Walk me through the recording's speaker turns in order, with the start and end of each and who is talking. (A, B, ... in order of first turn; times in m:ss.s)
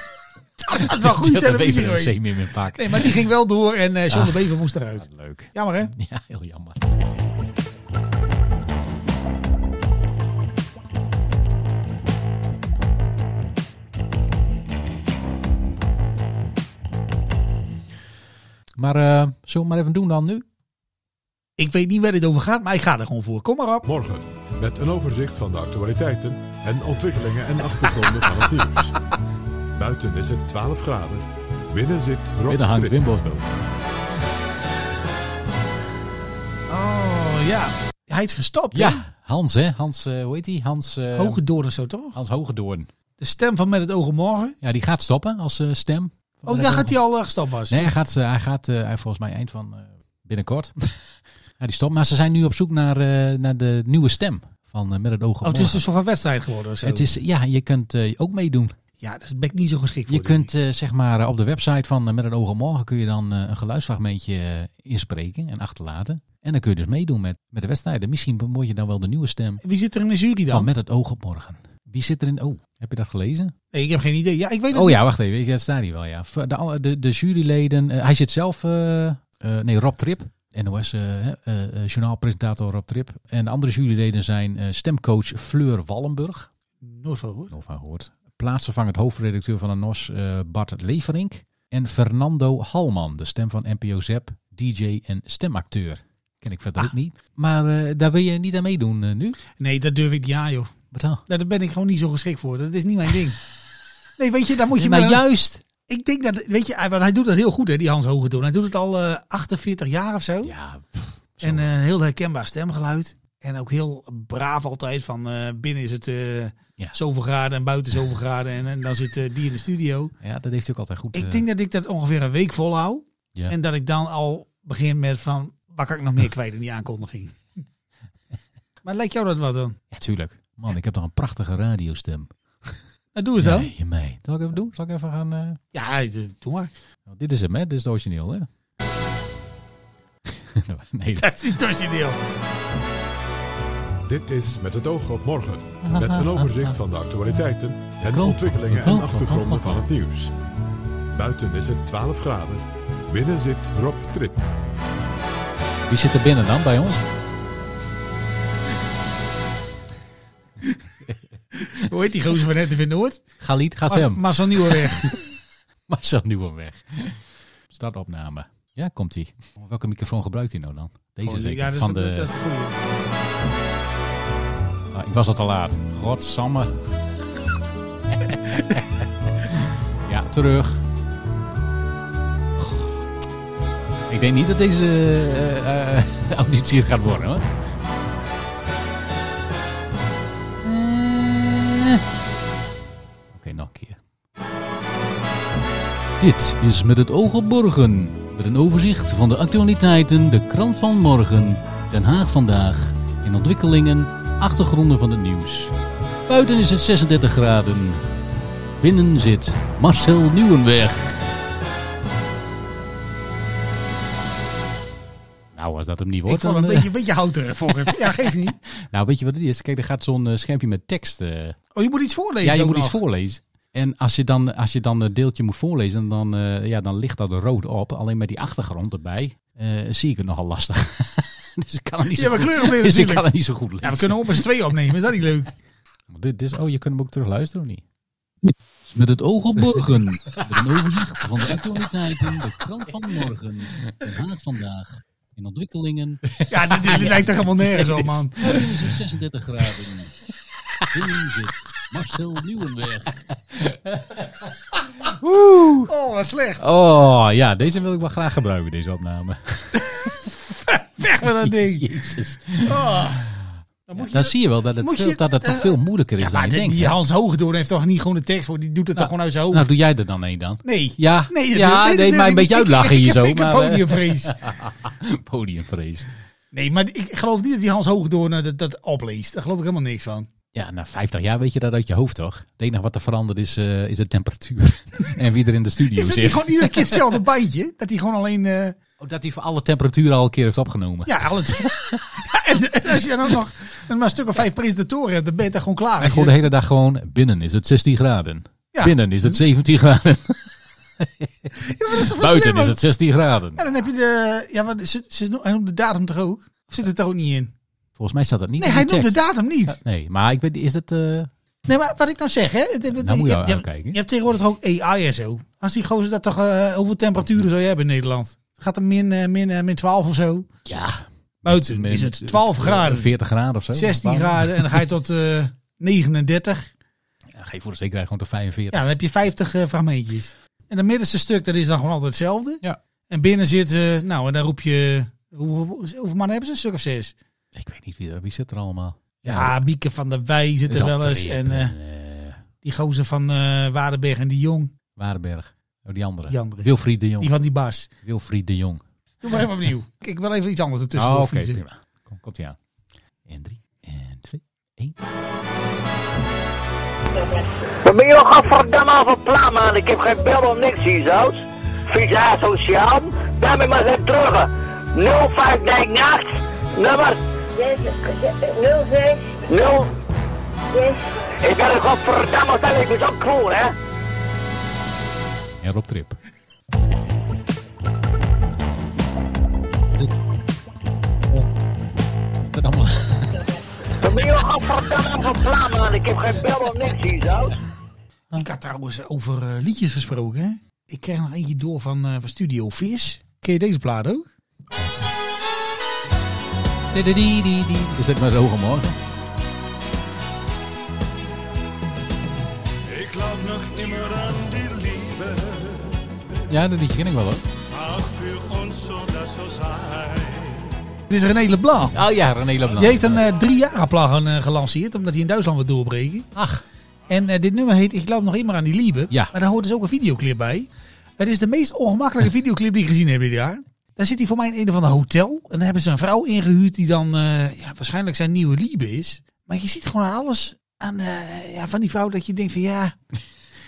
0:00.6-0:02.2 A
0:00.7-0:03.2 B
0:02.7-0:05.9 A
0:04.1-0:06.8 B
0:18.8-0:20.4 B
0:21.6-0:23.8 A
0:23.8-0:29.0 C
0:29.8-0:33.0 C
0:32.4-0:33.5 B
0:36.7-0:39.0 A
0:38.7-0:41.4 B
0:41.1-0:42.2 A
0:42.1-0:42.9 B
0:43.2-0:44.6 A
0:44.6-0:47.0 B
0:46.4-0:47.9 A
0:47.7-0:51.0 B
0:51.6-0:55.8 B
0:55.4-0:57.1 A
0:56.8-0:58.7 B
0:59.0-1:00.5 A
1:00.1-1:09.6 B
1:09.6-1:10.7 A
1:10.5-1:13.5 B
1:13.7-1:15.0 A
1:14.7-1:26.5 B
1:26.8-1:27.5 A
1:27.5-1:39.4 B
1:39.6-1:40.7 A
1:40.9-1:41.2 B
1:41.3-1:43.4 A
1:44.2-1:45.2 A
1:44.7-1:45.6 B
1:45.9-1:50.5 A
1:50.4-1:51.7 B
1:51.4-2:00.1 A
2:00.2-2:01.4 B
2:01.1-2:07.4 A
2:08.8-2:09.8 A
2:09.9-2:12.7 B
2:13.2-2:13.7 A
2:13.4-2:15.6 B
2:15.7-2:16.7 A
2:17.1-2:18.5 B
2:20.3-2:21.3 B
2:21.2-2:22.2 A
2:24.1-2:30.3 C
2:25.8-2:26.7 B
2:28.0-2:29.8 B
2:31.1-2:34.4 C
2:35.9-2:37.0 B
2:41.6-2:43.2 A
2:43.4-2:45.2 B
2:43.9-2:45.2 A
2:45.9-2:52.3 B
2:51.2-2:52.8 A
2:54.9-2:56.8 B
2:58.1-3:00.8 B
3:02.6-3:02.9 B
3:04.1-3:07.5 B
3:10.6-3:12.0 B
3:13.3-3:14.0 B
3:16.2-3:25.7 B
3:26.3-3:28.1 B
3:28.8-3:31.4 B
3:35.5-3:36.9 B
3:36.3-3:38.6 A
3:38.8-3:41.6 B
3:41.7-3:43.0 A
3:42.4-3:54.4 B
3:52.1-3:55.5 A
3:56.1-3:57.8 B
3:58.8-4:10.2 B
4:06.5-4:08.7 A
4:10.8-4:14.3 B
4:15.0-4:15.9 B
4:15.9-4:16.6 A
4:16.6-4:20.3 B
4:20.6-4:23.3 A
4:21.4-4:23.4 B
4:23.9-4:29.7 A
4:24.0-4:27.0 B
4:29.0-4:36.1 B
4:30.6-4:34.4 A
4:36.5-4:40.3 A
4:40.5-4:46.9 B
4:45.9-4:48.8 A
4:49.0-4:51.9 B
4:51.0-4:56.4 A
4:56.0-5:03.6 B
4:58.7-4:59.4 A
5:01.6-5:02.8 A
5:03.6-5:07.5 A
5:08.0-5:11.3 B
5:08.6-5:09.8 A
5:11.6-5:20.5 A
5:12.9-5:14.0 B
5:20.6-5:24.8 B
5:21.4-5:23.1 A
5:23.7-5:26.7 A
5:27.3-5:28.8 B
5:28.7-5:37.1 A
5:37.5-5:39.7 B
5:39.2-5:41.7 A
5:40.7-5:42.4 B
5:42.6-5:44.7 A
5:45.0-5:47.3 B
5:46.3-5:47.9 A
5:48.0-5:48.8 B
5:49.2-5:51.6 A
5:50.9-5:52.6 B
5:53.2-5:55.0 B
5:57.1-6:09.9 D
6:10.7-6:13.7 D
6:15.6-6:16.2 B
6:22.5-6:23.5 B
6:24.0-6:27.5 D
6:28.3-6:34.3 A
6:36.9-6:39.0 B
6:42.9-6:46.0 E
6:46.5-6:47.4 B
6:47.7-6:50.7 E
6:51.1-6:52.0 A
6:51.9-6:53.2 B
6:52.7-6:56.3 A
6:56.3-6:56.6 B
6:57.1-7:13.0 A